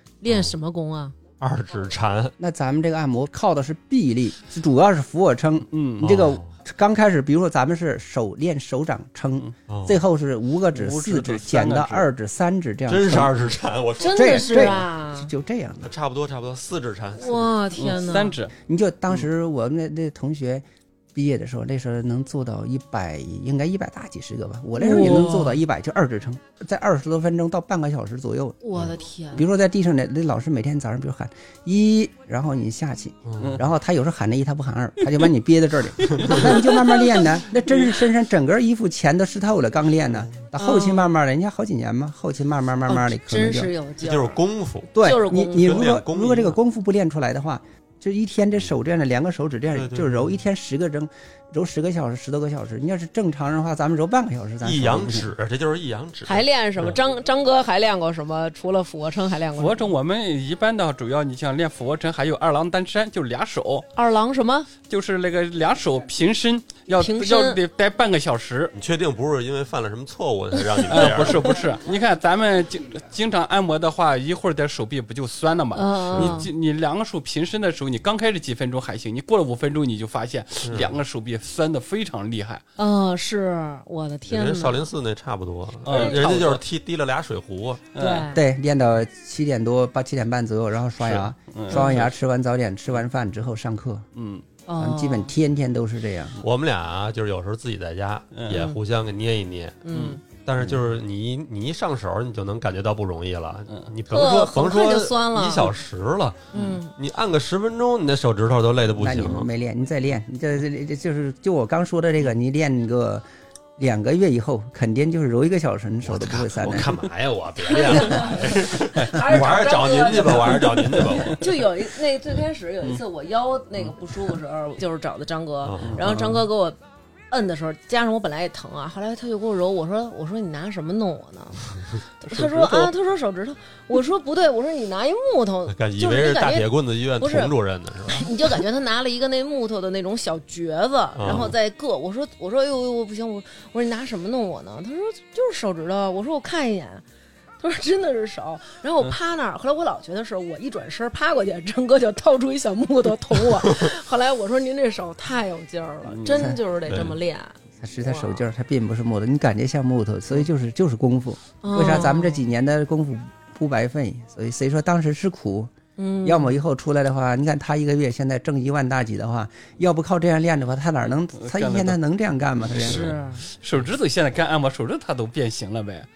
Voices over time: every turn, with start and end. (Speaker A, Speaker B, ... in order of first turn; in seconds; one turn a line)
Speaker A: 0.2-1.1
Speaker B: 0.3-0.6
Speaker B: 1.4-2.3
Speaker C: 2.4-13.3
Speaker D: 5.7-6.2
Speaker B: 6.0-6.5
Speaker B: 9.7-10.0
Speaker D: 10.7-12.1
Speaker B: 12.9-14.8
Speaker A: 14.0-15.3
Speaker C: 14.0-15.9
Speaker B: 15.8-17.6
Speaker A: 17.2-18.4
Speaker D: 17.8-18.5
Speaker C: 18.7-28.7
Speaker A: 24.8-25.6
Speaker A: 28.6-29.4
Speaker C: 29.3-43.7
Speaker B: 33.3-33.6
Speaker D: 36.0-37.0
Speaker A: 40.6-41.1
Speaker A: 42.9-44.4
Speaker B: 44.0-44.9
Speaker C: 44.9-55.3
Speaker A: 45.0-45.9
Speaker B: 45.5-46.6
Speaker B: 49.7-50.4
Speaker B: 54.6-57.0
Speaker A: 56.2-59.9
Speaker D: 59.6-63.9
Speaker A: 64.0-64.7
Speaker D: 64.9-68.7
Speaker A: 66.9-67.6
Speaker B: 68.7-71.6
Speaker A: 70.7-71.3
Speaker D: 70.9-82.6
Speaker A: 75.7-76.5
Speaker B: 76.2-76.5
Speaker B: 80.6-81.0
Speaker A: 82.8-84.9
Speaker B: 84.3-87.9
Speaker D: 85.8-86.6
Speaker A: 85.9-86.2
Speaker D: 87.9-88.3
Speaker A: 88.0-88.4
Speaker C: 88.3-94.1
Speaker D: 91.0-92.1
Speaker D: 94.2-94.5
Speaker A: 94.7-95.3
Speaker C: 94.8-96.4
Speaker B: 96.4-109.5
Speaker D: 98.3-98.6
Speaker A: 98.5-98.8
Speaker A: 99.8-100.2
Speaker D: 99.9-100.2
Speaker A: 104.1-105.8
Speaker A: 106.5-106.9
Speaker C: 109.0-113.2
Speaker C: 113.8-116.9
Speaker B: 116.0-121.6
Speaker A: 117.6-126.8
Speaker D: 119.0-119.2
Speaker D: 120.0-121.4
Speaker B: 125.6-126.2
Speaker D: 125.8-126.4
Speaker A: 127.3-137.5
Speaker D: 132.3-132.9
Speaker B: 135.7-138.6
Speaker A: 138.1-147.0
Speaker B: 141.2-141.6
Speaker A: 147.6-158.4
Speaker D: 156.1-156.5
Speaker C: 156.3-156.6
Speaker B: 156.9-157.2
Speaker C: 157.8-165.7
Speaker A: 161.6-162.4
Speaker A: 166.0-166.6
Speaker C: 166.2-173.1
Speaker D: 171.3-172.0
Speaker D: 172.7-176.1
Speaker A: 172.8-173.4